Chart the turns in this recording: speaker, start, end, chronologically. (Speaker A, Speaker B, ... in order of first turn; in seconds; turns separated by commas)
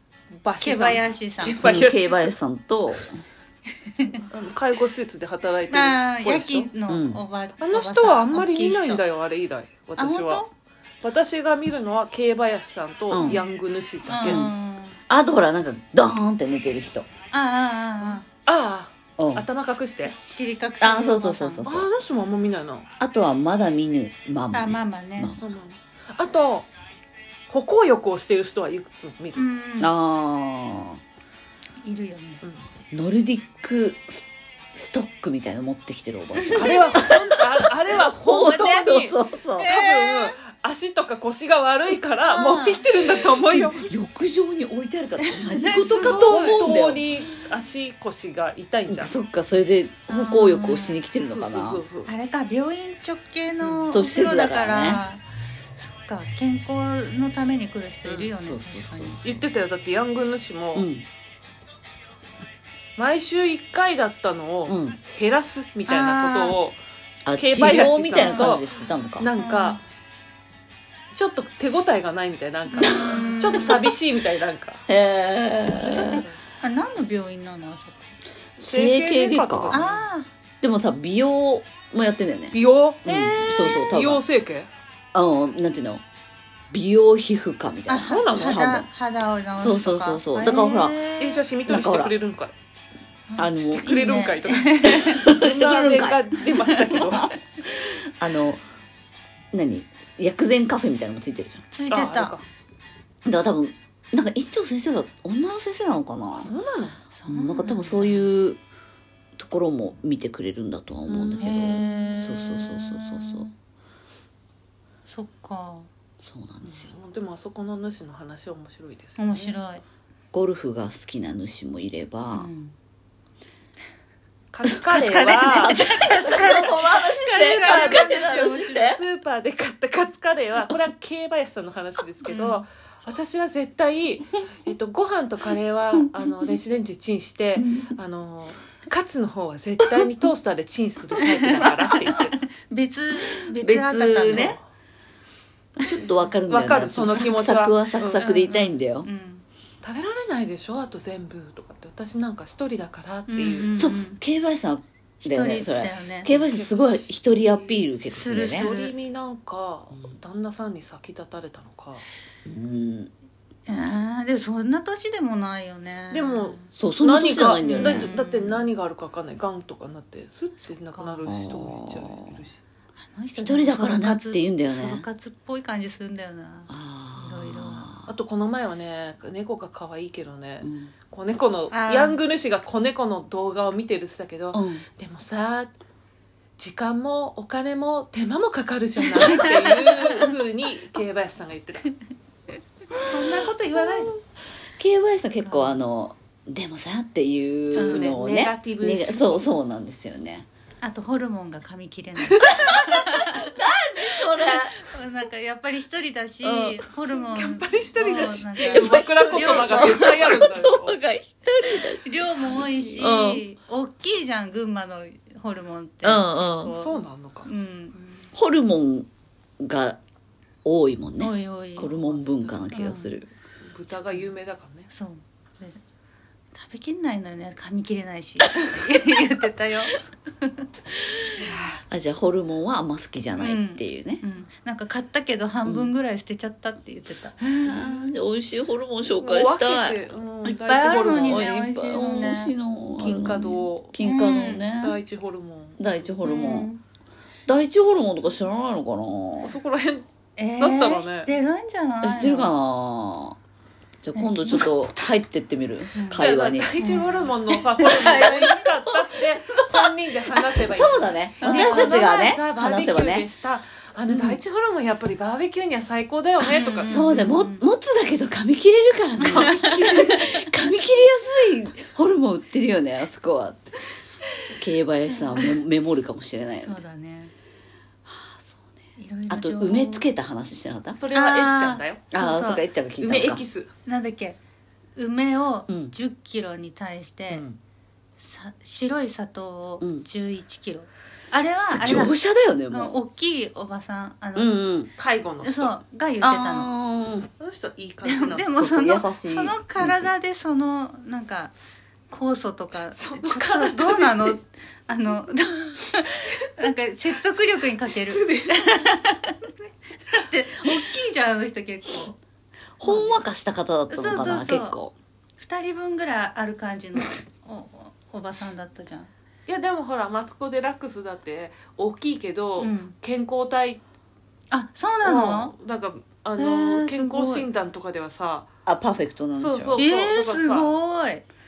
Speaker A: 0.4-2.3, Speaker B: 0.6-1.6, Speaker C: 1.6-3.2, Speaker B: 3.9-4.2, Speaker A: 4.3-6.7, Speaker B: 5.7-9.0, Speaker C: 6.9-7.2, Speaker A: 7.6-10.4, Speaker B: 10.0-10.5, Speaker A: 11.0-14.5, Speaker C: 13.1-13.4, Speaker B: 14.1-15.0, Speaker C: 14.2-14.5, Speaker C: 15.1-17.1, Speaker B: 17.3-18.2, Speaker A: 18.5-20.1, Speaker C: 19.2-19.4, Speaker B: 20.0-21.6, Speaker C: 20.8-21.9, Speaker A: 21.6-22.9, Speaker C: 23.0-25.4, Speaker B: 24.5-25.3, Speaker A: 25.4-26.7, Speaker A: 27.5-29.4, Speaker B: 29.4-29.9, Speaker C: 29.8-31.0, Speaker B: 31.8-32.4, Speaker C: 32.9-39.8, Speaker B: 36.4-36.9, Speaker A: 36.5-39.2, Speaker B: 39.6-40.3, Speaker A: 39.7-43.9, Speaker B: 42.3-42.9, Speaker C: 43.5-47.1, Speaker B: 45.3-46.7, Speaker A: 45.9-49.1, Speaker C: 48.9-51.8, Speaker B: 50.1-51.0, Speaker A: 51.2-52.1, Speaker B: 52.1-55.2, Speaker C: 53.9-55.0, Speaker B: 55.8-59.3, Speaker A: 58.0-58.3, Speaker C: 58.4-59.4, Speaker A: 59.2-60.9, Speaker C: 60.8-61.1, Speaker A: 63.0-66.8, Speaker C: 64.7-65.0, Speaker B: 65.9-66.6, Speaker C: 67.3-69.3, Speaker A: 67.4-68.7, Speaker B: 67.6-68.6, Speaker A: 69.2-69.8, Speaker B: 69.4-69.8, Speaker A: 71.1-74.8, Speaker B: 72.7-73.9, Speaker C: 72.8-73.2, Speaker C: 74.9-76.2, Speaker B: 75.8-78.1, Speaker A: 75.9-76.3, Speaker C: 78.6-79.8, Speaker A: 78.6-80.0, Speaker B: 79.7-80.3, Speaker C: 80.6-84.2, Speaker A: 82.5-84.7, Speaker C: 85.1-86.0, Speaker C: 86.7-88.9, Speaker B: 87.9-91.4, Speaker A: 88.0-88.6, Speaker C: 89.6-91.0, Speaker A: 91.2-92.5, Speaker C: 91.7-92.1, Speaker B: 93.3-95.3, Speaker C: 93.4-94.0, Speaker A: 93.7-97.3, Speaker C: 94.8-96.2, Speaker B: 96.5-97.3, Speaker C: 97.6-98.6, Speaker C: 99.5-101.6, Speaker B: 101.7-102.3, Speaker A: 101.9-102.4, Speaker C: 103.2-106.5, Speaker A: 106.3-107.0, Speaker B: 107.1-108.3, Speaker C: 107.3-108.6, Speaker C: 109.4-113.5, Speaker B: 111.1-113.5, Speaker B: 115.1-115.9, Speaker C: 116.2-116.9, Speaker A: 116.6-119.5, Speaker B: 119.2-119.8, Speaker C: 120.3-122.5, Speaker B: 122.3-122.8, Speaker A: 124.5-125.8, Speaker B: 124.7-128.9, Speaker C: 125.0-129.0, Speaker A: 127.6-142.4, Speaker B: 132.3-132.7, Speaker C: 137.6-138.0, Speaker B: 141.3-144.6, Speaker C: 143.4-144.6, Speaker C: 145.8-149.1, Speaker A: 146.5-148.3, Speaker B: 148.2-149.4, Speaker A: 149.8-153.8, Speaker B: 153.3-154.2, Speaker C: 153.8-158.7, Speaker B: 155.2-156.3, Speaker A: 156.3-157.9, Speaker B: 158.1-158.9, Speaker A: 158.5-162.0, Speaker C: 162.5-163.1, Speaker B: 163.7-166.7, Speaker A: 166.1-172.6, Speaker C: 166.7-168.2, Speaker B: 167.6-168.7, Speaker B: 170.9-171.2, Speaker C: 171.2-172.4, Speaker B: 173.0-177.9, Speaker C: 173.4-175.0, Speaker C: 176.7-178.1, Speaker A: 178.1-185.7, Speaker C: 180.6-180.9, Speaker B: 181.7-182.2, Speaker C: 184.5-184.8, Speaker A: 186.6-191.9, Speaker B: 189.2-190.3, Speaker A: 193.1-194.2, Speaker C: 194.8-200.5, Speaker B: 195.4-195.8, Speaker A: 197.7-199.5, Speaker B: 197.8-198.2, Speaker B: 200.8-203.5, Speaker A: 202.3-203.0, Speaker C: 203.1-204.8, Speaker B: 204.1-210.4, Speaker C: 206.4-206.9, Speaker A: 207.3-211.0, Speaker C: 208.7-213.4, Speaker B: 212.0-218.0, Speaker A: 212.3-213.1, Speaker C: 216.0-216.7, Speaker A: 216.8-217.5, Speaker C: 218.3-219.1, Speaker C: 219.6-220.0, Speaker C: 220.7-223.3, Speaker B: 221.2-221.9, Speaker A: 221.8-222.7, Speaker B: 222.7-223.2, Speaker A: 223.7-224.9, Speaker B: 224.9-225.8, Speaker B: 226.5-230.7, Speaker C: 231.1-234.2, Speaker B: 233.3-238.1, Speaker C: 235.7-235.9, Speaker C: 237.4-240.0, Speaker A: 239.2-241.5, Speaker B: 240.5-242.5, Speaker C: 240.9-245.0, Speaker A: 243.0-243.9, Speaker B: 244.0-244.7, Speaker A: 244.8-245.8, Speaker C: 245.8-246.7, Speaker B: 246.2-246.8, Speaker C: 247.5-249.6, Speaker A: 249.4-250.1, Speaker B: 250.4-252.6, Speaker A: 250.6-251.3, Speaker C: 252.0-253.4, Speaker C: 254.0-256.7, Speaker B: 254.2-254.7, Speaker B: 255.9-257.3, Speaker A: 256.1-267.0, Speaker C: 257.8-259.9, Speaker C: 260.6-263.3, Speaker B: 261.4-262.1, Speaker B: 266.4-267.7, Speaker C: 266.9-273.7, Speaker B: 269.2-270.2, Speaker A: 269.3-270.2, Speaker C: 274.5-276.8, Speaker B: 275.1-275.5, Speaker B: 276.6-277.3, Speaker C: 278.1-278.7, Speaker B: 279.0-280.1, Speaker C: 279.3-281.0, Speaker A: 281.0-282.1, Speaker B: 281.1-282.6, Speaker C: 282.1-283.4, Speaker A: 283.0-283.7, Speaker B: 283.9-284.4, Speaker B: 285.0-287.4, Speaker C: 285.7-285.9, Speaker C: 287.3-287.6, Speaker B: 288.2-292.2, Speaker C: 289.8-290.1, Speaker C: 291.7-292.9, Speaker B: 292.7-294.7, Speaker C: 294.4-294.9, Speaker A: 295.0-295.8, Speaker B: 295.4-296.7, Speaker C: 296.2-297.3, Speaker A: 297.4-298.5, Speaker B: 298.0-301.5, Speaker C: 298.6-300.1, Speaker B: 302.1-309.5, Speaker A: 303.0-304.4, Speaker A: 307.9-309.0, Speaker B: 310.1-312.2, Speaker C: 312.8-314.9, Speaker B: 312.8-313.2, Speaker B: 313.9-314.8, Speaker B: 315.4-319.1, Speaker A: 319.5-323.8, Speaker B: 322.6-323.0, Speaker B: 324.5-325.5, Speaker A: 325.0-328.5, Speaker B: 326.4-327.5, Speaker C: 328.6-329.8, Speaker A: 329.4-330.7, Speaker B: 329.8-331.2